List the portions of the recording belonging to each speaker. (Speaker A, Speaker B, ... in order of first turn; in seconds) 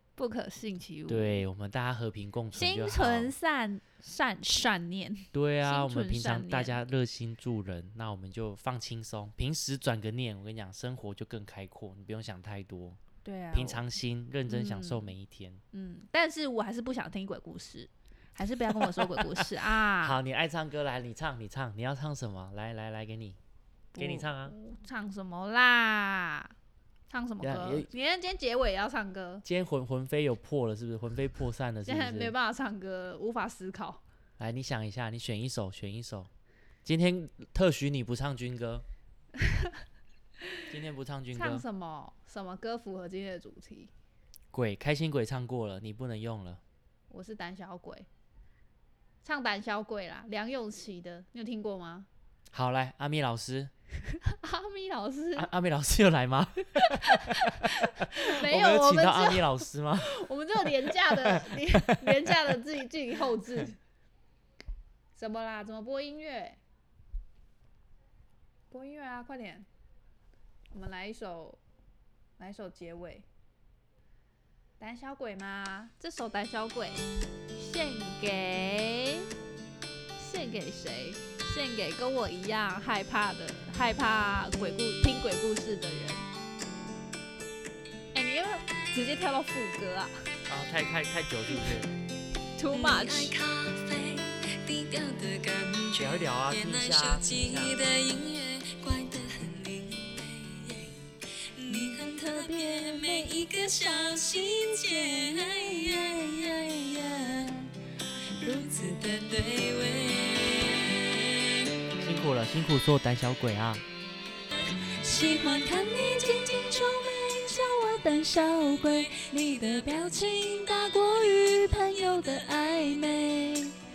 Speaker A: 0.2-1.4, 2.5-6.8, 13.2-13.8, 14.5-15.1, 15.7-20.2, 23.9-26.5, 27.1-29.4, 31.8-34.0, 39.4-39.7, 41.3-43.9, 47.1-48.1, 49.2-52.1, 54.2-55.5, 56.8-59.5, 60.0-63.8, 65.2-66.6, 68.7-69.7, 70.7-71.6, 72.4-73.2, 74.8-77.0, 77.5-79.3, 80.2-86.3, 88.1-90.1, 92.6-93.3, 101.7-103.4, 105.2-105.8, 108.4-109.0, 114.8-116.7, 117.4-123.7
Speaker B: 1.1-3.3, 5.3-13.0, 13.5-15.6, 18.8-19.4, 20.0-23.4, 24.0-24.5, 27.4-27.9, 29.4-32.3, 34.4-36.3, 36.8-38.8, 40.7-41.6, 44.5-46.6, 52.5-53.7, 55.4-60.1, 60.6-62.5, 90.5-91.9, 96.0-97.8, 111.9-113.8
Speaker C: 92.7-101.0, 101.5-107.6, 108.4-111.7, 115.0-117.6, 118.8-121.6